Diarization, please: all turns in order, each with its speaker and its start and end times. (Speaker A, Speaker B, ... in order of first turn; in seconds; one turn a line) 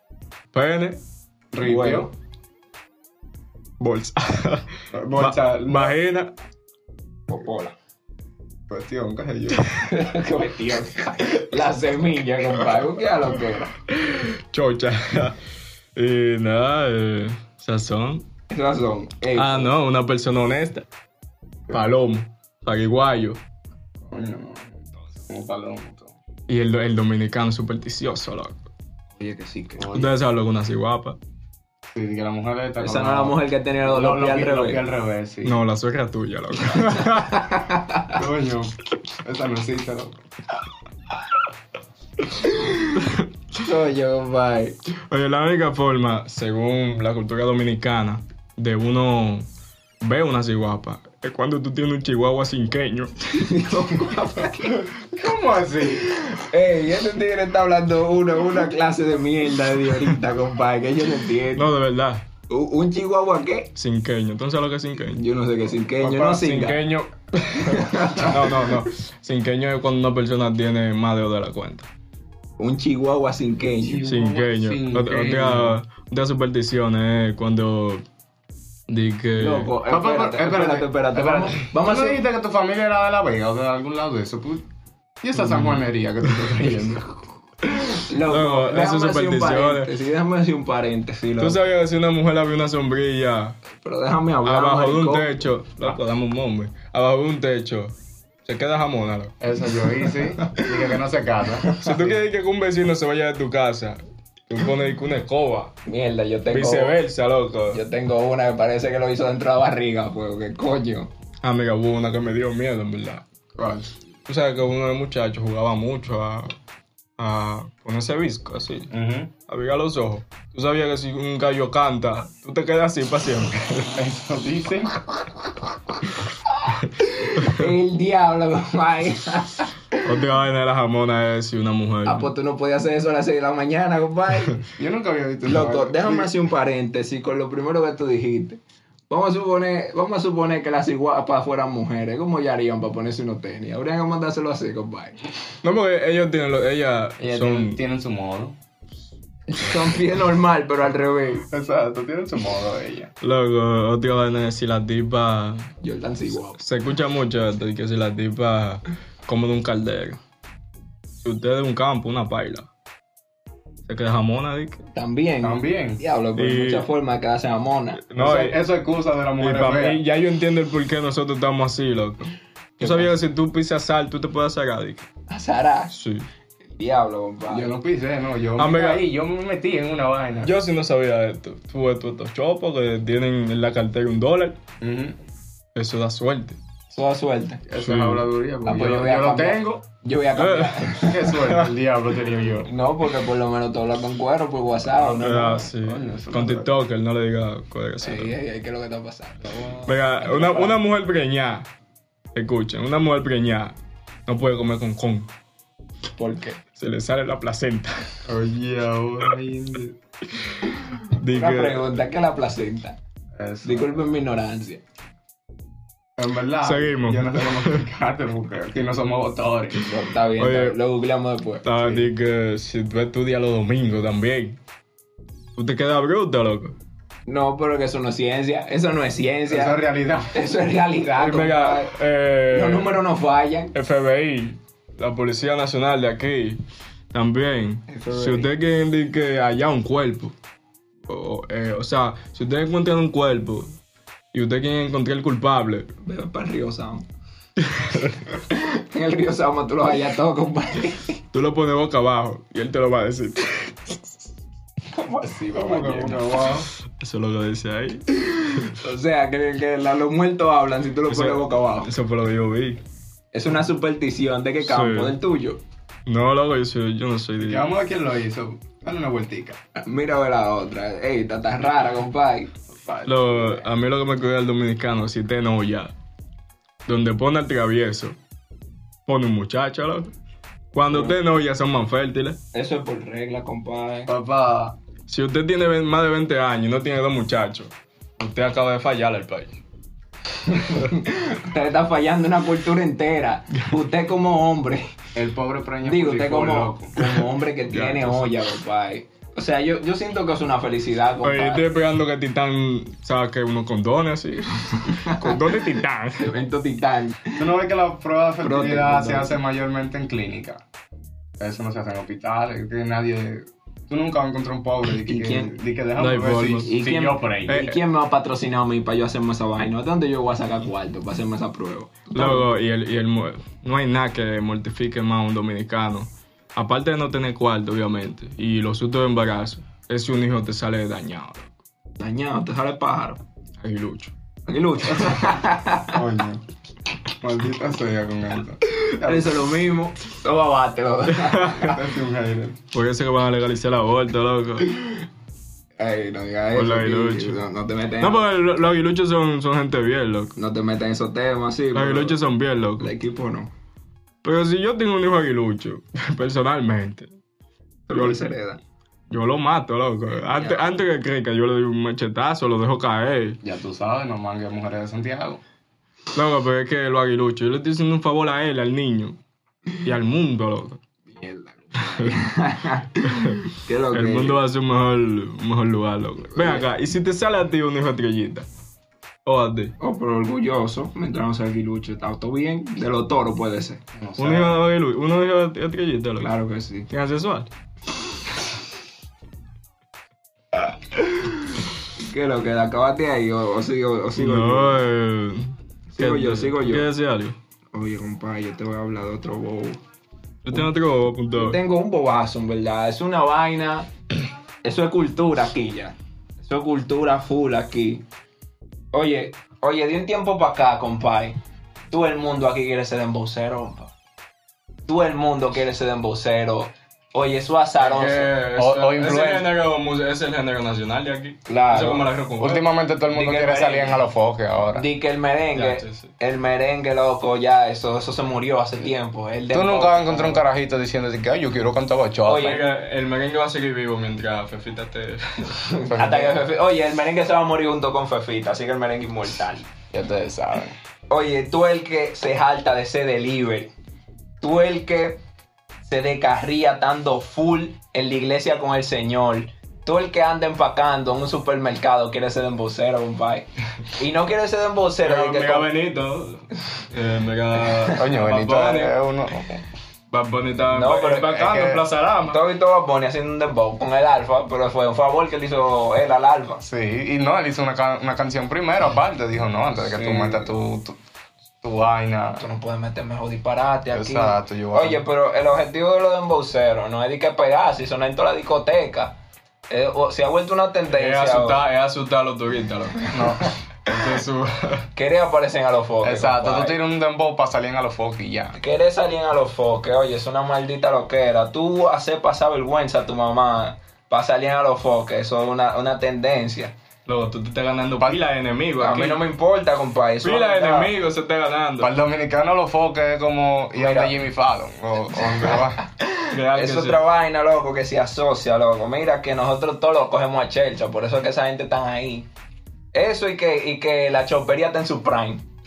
Speaker A: 0.5-1.0
Speaker B: 1.5-2.1
Speaker C: 1.6-2.1
Speaker A: 3.8-6.3
Speaker B: 4.9-5.9
Speaker C: 7.3-7.8
Speaker B: 8.7-10.0
Speaker C: 9.8-13.7
Speaker A: 13.9-15.4
Speaker A: 15.9-18.2
Speaker C: 18.5-19.7
Speaker A: 19.3-20.8
Speaker A: 21.7-23.4
Speaker B: 24.1-26.1
Speaker A: 26.5-28.7
Speaker C: 29.2-29.9
Speaker B: 29.8-30.1
Speaker A: 29.9-31.2
Speaker B: 31.9-35.6
Speaker C: 32.8-34.8
Speaker A: 35.4-37.6
Speaker C: 37.3-38.1
Speaker B: 38.1-40.2
Speaker C: 42.4-43.0
Speaker A: 43.0-43.3
Speaker C: 43.5-44.8
Speaker A: 45.1-49.5
Speaker A: 50.0-53.5
Speaker C: 53.3-54.9
Speaker B: 54.9-56.1
Speaker C: 56.1-61.7
Speaker A: 61.5-62.2
Speaker C: 62.5-63.7
Speaker A: 63.7-65.2
Speaker C: 65.1-66.8
Speaker A: 66.0-71.9
Speaker C: 67.6-68.7
Speaker C: 72.6-74.0
Speaker B: 73.7-75.8
Speaker A: 74.0-78.0
Speaker A: 78.9-79.7
Speaker C: 79.4-82.2
Speaker B: 79.8-84.6
Speaker B: 85.2-87.3
Speaker A: 85.4-85.8
Speaker A: 86.3-86.6
Speaker A: 87.7-89.9
Speaker C: 88.0-91.6
Speaker A: 91.4-93.5
Speaker C: 93.7-95.5
Speaker A: 94.4-97.9
Speaker A: 98.4-99.3
Speaker B: 99.4-102.2
Speaker C: 100.4-100.7
Speaker A: 101.8-105.7
Speaker C: 105.8-106.9
Speaker A: 106.5-107.8
Speaker C: 107.7-111.1
Speaker A: 111.4-113.2
Speaker B: 113.5-113.9
Speaker A: 114.2-116.5
Speaker A: 117.2-118.9
Speaker B: 118.9-119.3
Speaker A: 119.5-124.0
Speaker B: 123.9-125.3
Speaker C: 126.6-130.0
Speaker A: 127.4-127.7
Speaker A: 130.0-132.3
Speaker C: 132.0-134.6
Speaker B: 134.8-136.3
Speaker C: 135.4-145.2
Speaker A: 145.6-147.8
Speaker B: 147.2-148.6
Speaker C: 149.5-151.4
Speaker B: 151.4-153.1
Speaker A: 153.2-155.7
Speaker C: 155.8-156.6
Speaker A: 156.6-160.2
Speaker A: 161.2-162.7
Speaker A: 163.8-164.8
Speaker C: 164.9-168.0
Speaker B: 165.4-166.0
Speaker A: 166.3-166.9
Speaker A: 168.0-168.6
Speaker B: 168.2-170.0
Speaker A: 169.4-175.1
Speaker C: 172.8-173.1
Speaker C: 175.3-175.9
Speaker A: 175.9-176.3
Speaker C: 176.8-177.7
Speaker B: 177.5-180.5
Speaker A: 178.6-179.0
Speaker A: 180.4-184.6
Speaker B: 184.8-185.2
Speaker A: 185.7-186.6
Speaker C: 186.9-187.6
Speaker B: 187.7-189.8
Speaker A: 187.8-188.2
Speaker C: 188.6-191.2
Speaker A: 190.3-191.7
Speaker B: 191.0-192.7
Speaker C: 192.7-195.7
Speaker B: 194.9-196.7
Speaker A: 195.2-198.3
Speaker C: 198.0-200.8
Speaker A: 199.8-201.7
Speaker A: 202.3-203.7
Speaker A: 204.3-205.3
Speaker C: 206.2-206.6
Speaker A: 206.7-208.1
Speaker B: 208.2-209.9
Speaker A: 210.4-212.0
Speaker C: 211.3-213.0
Speaker B: 213.3-214.1
Speaker C: 213.6-214.8
Speaker B: 216.2-219.8
Speaker A: 216.6-217.8
Speaker C: 219.8-221.6
Speaker A: 220.4-220.8
Speaker A: 221.6-224.6
Speaker B: 221.8-222.1
Speaker A: 225.6-226.7
Speaker C: 227.3-229.8
Speaker B: 229.5-230.4
Speaker C: 230.3-231.9
Speaker A: 231.2-233.0
Speaker C: 232.5-233.7
Speaker A: 233.7-236.6
Speaker A: 237.1-240.3
Speaker C: 237.9-238.5
Speaker A: 241.1-243.7
Speaker A: 244.3-245.9
Speaker C: 246.0-247.1
Speaker A: 247.6-248.2
Speaker C: 248.5-251.2
Speaker A: 251.3-254.2
Speaker C: 254.9-256.2
Speaker B: 255.5-256.7
Speaker A: 256.9-258.7
Speaker C: 258.6-261.9
Speaker A: 261.1-262.8
Speaker C: 263.3-265.6
Speaker A: 264.6-265.2
Speaker A: 266.1-267.7
Speaker B: 267.4-269.6
Speaker C: 269.8-272.5
Speaker B: 272.7-273.6
Speaker A: 273.1-275.9
Speaker A: 276.9-278.1
Speaker A: 279.1-280.1
Speaker A: 280.7-282.4
Speaker C: 282.5-284.1
Speaker B: 284.1-284.7
Speaker A: 285.1-289.6
Speaker C: 290.4-294.9
Speaker B: 295.1-297.3
Speaker C: 295.8-301.6
Speaker A: 297.7-298.3
Speaker A: 301.2-306.3
Speaker C: 304.9-305.4
Speaker C: 306.2-307.4
Speaker B: 307.4-310.6
Speaker C: 308.4-309.4
Speaker B: 311.4-317.7
Speaker C: 315.0-315.5
Speaker A: 316.0-316.7
Speaker C: 316.6-322.5
Speaker A: 317.5-317.7
Speaker A: 322.1-331.5
Speaker C: 332.0-333.2
Speaker A: 333.6-334.1
Speaker C: 334.5-336.0
Speaker B: 334.9-335.3
Speaker B: 335.9-336.4
Speaker B: 337.2-339.4
Speaker C: 338.7-341.7
Speaker A: 341.1-341.7
Speaker B: 341.6-342.6
Speaker A: 342.7-344.8
Speaker C: 345.8-348.3
Speaker A: 346.5-347.4
Speaker A: 348.0-350.3
Speaker C: 350.4-352.2
Speaker A: 351.7-352.9
Speaker C: 352.8-353.5
Speaker A: 354.2-357.1
Speaker C: 357.9-358.6
Speaker A: 357.9-358.3
Speaker A: 359.1-363.4
Speaker C: 360.3-360.8
Speaker B: 363.4-365.4
Speaker A: 366.1-369.2
Speaker A: 369.8-370.8
Speaker C: 371.1-374.4
Speaker A: 371.8-372.2
Speaker A: 373.0-378.4
Speaker C: 376.3-376.7
Speaker A: 379.2-379.7
Speaker C: 379.8-383.8
Speaker B: 384.0-384.6
Speaker A: 384.2-386.3
Speaker C: 386.2-386.9
Speaker A: 386.9-387.5
Speaker C: 390.9-394.8
Speaker A: 394.1-397.4
Speaker C: 395.9-396.9
Speaker C: 397.7-399.8
Speaker A: 400.4-401.6
Speaker C: 401.3-403.9
Speaker C: 404.6-408.0
Speaker C: 408.9-411.4
Speaker C: 411.9-413.9
Speaker C: 414.9-418.3
Speaker A: 417.8-422.6
Speaker B: 418.6-419.5
Speaker C: 421.5-422.1
Speaker B: 422.4-424.8
Speaker C: 423.1-423.9
Speaker C: 424.7-430.4
Speaker A: 425.5-426.1
Speaker B: 429.5-432.6
Speaker C: 432.2-432.6
Speaker A: 432.4-435.7
Speaker C: 435.7-439.7
Speaker B: 435.9-436.4
Speaker B: 439.9-440.8
Speaker C: 441.1-443.7
Speaker C: 444.4-445.2
Speaker C: 445.8-455.7
Speaker A: 455.0-458.9
Speaker B: 457.9-459.6
Speaker A: 460.1-462.4
Speaker C: 460.7-461.4
Speaker B: 461.3-461.8
Speaker C: 462.2-466.6
Speaker B: 466.6-471.0
Speaker C: 469.9-470.5
Speaker B: 471.6-472.4
Speaker C: 472.4-479.1
Speaker B: 473.9-475.0
Speaker C: 479.7-481.6
Speaker A: 480.9-484.9
Speaker B: 483.1-483.5
Speaker C: 484.9-486.8
Speaker B: 486.0-488.6
Speaker C: 488.5-496.7
Speaker A: 497.1-499.2
Speaker C: 498.8-500.9
Speaker A: 500.2-501.9
Speaker B: 501.8-505.8
Speaker C: 503.8-504.1
Speaker C: 505.5-512.3
Speaker A: 506.3-507.0
Speaker C: 512.9-515.4